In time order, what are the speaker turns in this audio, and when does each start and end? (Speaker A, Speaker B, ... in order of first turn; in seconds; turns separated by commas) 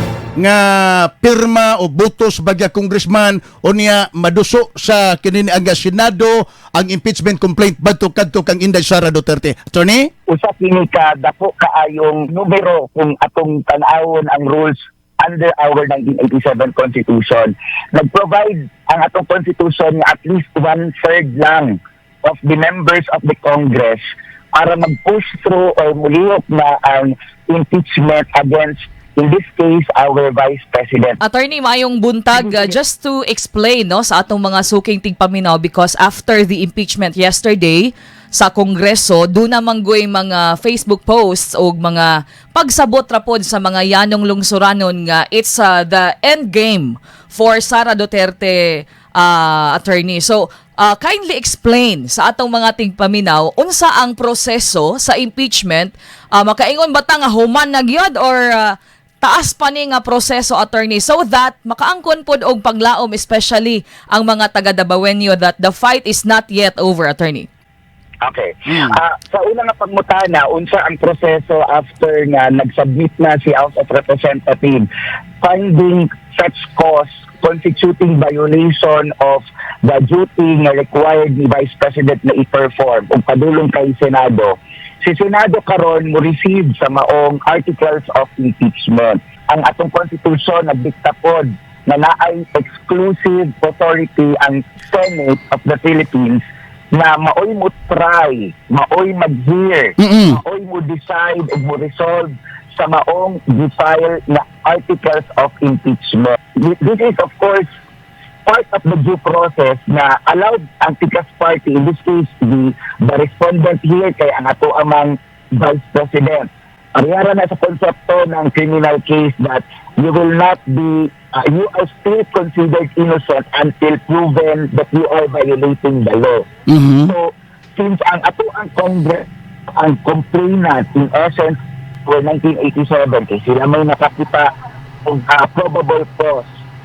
Speaker A: 0.4-10.1, Speaker B: 10.3-24.0, Speaker B: 24.5-31.2, Speaker C: 31.2-67.5, Speaker B: 32.4-32.7, Speaker B: 68.2-74.9, Speaker A: 68.7-69.0, Speaker B: 75.4-96.4, Speaker B: 96.9-107.7, Speaker A: 100.0-100.4, Speaker B: 108.5-126.5, Speaker A: 126.7-127.1, Speaker B: 127.1-134.5, Speaker B: 135.1-136.5